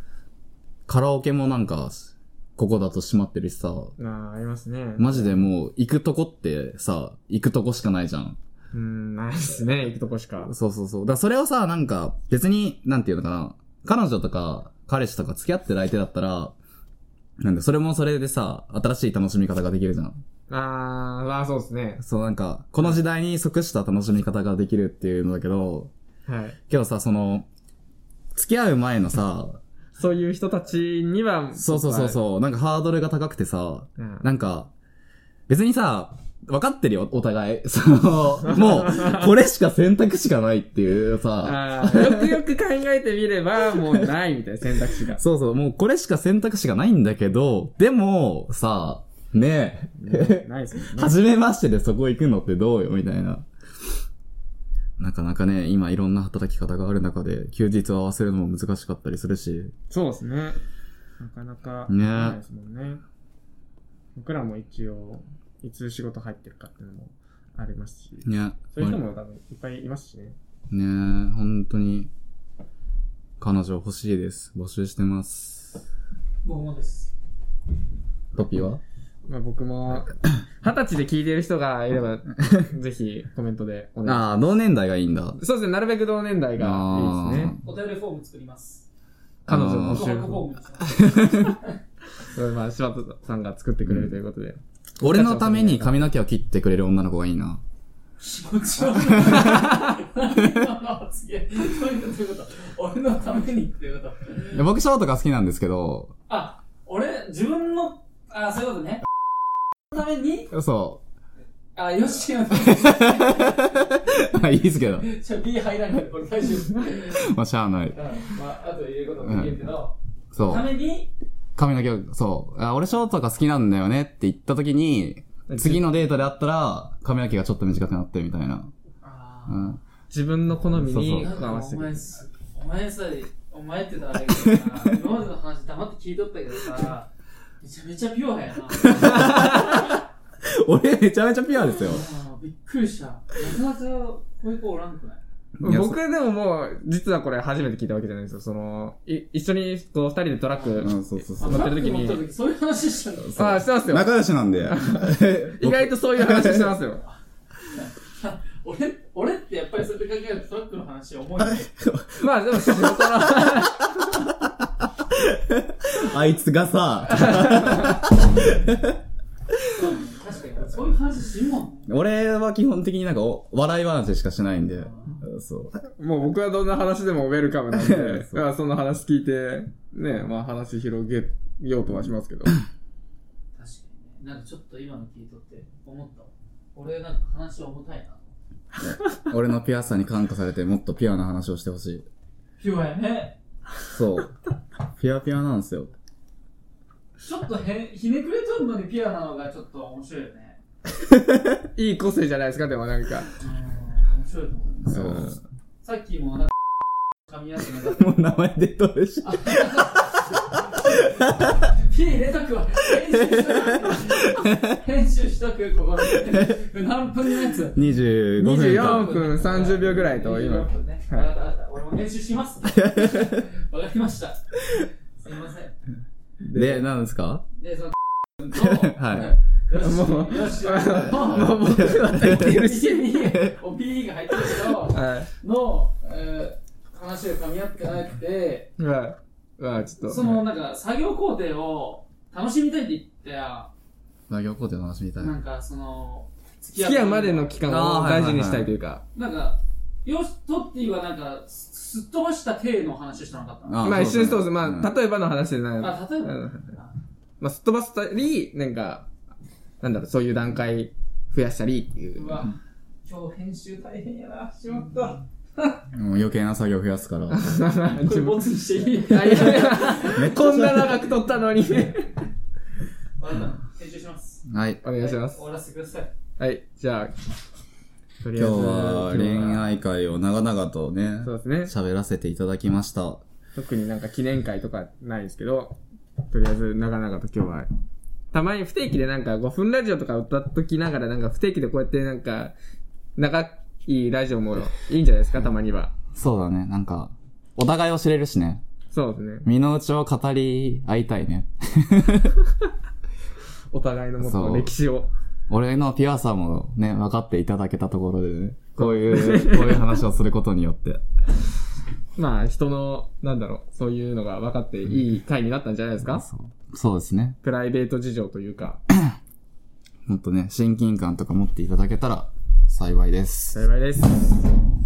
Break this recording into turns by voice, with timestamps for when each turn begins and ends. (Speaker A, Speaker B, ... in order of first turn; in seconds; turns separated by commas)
Speaker A: 0.9-3.9, Speaker B: 4.0-5.4, Speaker A: 5.0-8.4, Speaker B: 8.7-10.5, Speaker A: 10.4-16.5, Speaker A: 17.4-20.2, Speaker B: 20.5-22.0, Speaker A: 22.0-25.9, Speaker B: 26.3-26.6, Speaker A: 26.7-27.5, Speaker A: 28.3-29.6, Speaker B: 30.0-32.2, Speaker A: 31.5-34.7, Speaker B: 34.0-34.2, Speaker A: 35.5-42.4, Speaker B: 38.5-39.2, Speaker B: 41.4-45.2, Speaker A: 45.2-50.4, Speaker B: 50.0-51.2, Speaker A: 50.9-53.5, Speaker A: 55.0-59.7, Speaker B: 59.9-60.6, Speaker B: 61.2-63.0, Speaker A: 61.9-62.4, Speaker B: 64.1-70.3, Speaker A: 68.2-69.0, Speaker A: 70.7-72.1, Speaker A: 73.4-75.8, Speaker C: 76.4-77.1, Speaker A: 78.3-78.8, Speaker B: 79.3-84.3, Speaker A: 84.0-85.4, Speaker B: 85.4-87.5, Speaker A: 86.6-87.6, Speaker C: 87.6-88.8, Speaker B: 89.5-90.4, Speaker A: 89.5-90.1, Speaker C: 89.5-91.8, Speaker A: 90.8-91.6, Speaker B: 92.3-95.9, Speaker A: 93.9-94.1, Speaker A: 95.0-97.6, Speaker C: 98.2-104.6, Speaker A: 98.9-100.6, Speaker A: 104.5-106.1, Speaker C: 106.3-109.0, Speaker C: 109.9-110.5, Speaker A: 110.5-111.0, Speaker C: 111.7-114.3, Speaker A: 112.5-115.1, Speaker C: 115.0-117.3, Speaker A: 116.9-118.0, Speaker C: 117.9-121.1, Speaker A: 119.2-119.6, Speaker A: 120.3-120.7, Speaker A: 121.6-128.7, Speaker B: 125.5-125.9, Speaker C: 129.0-129.7, Speaker A: 129.5-129.8, Speaker B: 130.1-132.1, Speaker A: 130.8-131.3, Speaker C: 131.0-137.1, Speaker A: 134.3-134.9, Speaker C: 137.6-139.9, Speaker A: 138.8-142.1, Speaker B: 139.1-139.7, Speaker C: 141.7-145.2, Speaker A: 145.6-146.0, Speaker B: 145.6-152.2, Speaker A: 150.8-151.7, Speaker C: 151.4-153.5, Speaker A: 153.3-156.8, Speaker B: 153.3-154.1, Speaker B: 154.7-157.0, Speaker C: 157.7-161.7, Speaker A: 161.4-163.7, Speaker B: 162.2-164.1, Speaker A: 164.6-169.0, Speaker C: 169.7-171.9, Speaker A: 171.9-175.8, Speaker C: 174.9-175.2, Speaker B: 176.0-182.6, Speaker A: 177.7-178.4, Speaker C: 183.6-188.3, Speaker A: 188.8-192.1, Speaker C: 192.6-193.3, Speaker A: 193.9-194.3, Speaker A: 194.9-195.9, Speaker C: 197.2-200.6, Speaker A: 201.1-201.5, Speaker B: 201.8-203.3, Speaker C: 203.4-205.2, Speaker A: 204.8-205.4, Speaker B: 204.9-205.3, Speaker C: 205.8-206.5, Speaker C: 207.2-208.2, Speaker A: 207.8-211.6, Speaker C: 209.2-217.8, Speaker A: 212.9-214.8, Speaker A: 216.2-216.4, Speaker A: 217.7-219.2, Speaker B: 218.4-221.3, Speaker C: 218.5-224.6, Speaker A: 222.6-223.5, Speaker C: 225.2-225.8, Speaker B: 226.4-226.8, Speaker A: 226.5-227.4, Speaker C: 227.6-238.7, Speaker A: 228.5-229.3, Speaker B: 229.7-233.1, Speaker A: 231.5-232.6, Speaker B: 234.8-235.3, Speaker B: 238.8-240.4, Speaker C: 240.1-243.7, Speaker A: 244.3-245.3, Speaker C: 245.2-247.6, Speaker B: 246.8-249.0, Speaker A: 247.7-248.7, Speaker C: 249.1-253.7, Speaker A: 253.7-254.9, Speaker B: 253.8-256.7, Speaker C: 255.8-256.9, Speaker B: 257.4-259.1, Speaker B: 259.8-262.4, Speaker C: 262.1-262.5, Speaker C: 263.0-265.8, Speaker A: 265.9-267.5, Speaker B: 267.3-272.1, Speaker C: 267.9-270.2, Speaker A: 270.0-270.9, Speaker C: 273.2-274.4, Speaker A: 274.4-274.8, Speaker B: 274.8-275.4, Speaker C: 275.0-276.1, Speaker B: 276.4-277.1, Speaker B: 278.2-279.7, Speaker A: 278.4-283.2, Speaker B: 281.2-281.7, Speaker B: 283.6-285.8, Speaker B: 286.3-287.7, Speaker B: 288.3-292.5, Speaker B: 293.2-295.9, Speaker A: 296.1-298.6, Speaker B: 298.9-299.4, Speaker A: 299.4-302.4, Speaker B: 303.7-305.1, Speaker A: 304.2-304.7, Speaker A: 305.5-311.0, Speaker B: 308.8-310.0, Speaker B: 312.1-316.2, Speaker A: 316.0-317.4, Speaker B: 317.4-318.8, Speaker A: 320.1-323.6, Speaker B: 323.5-324.5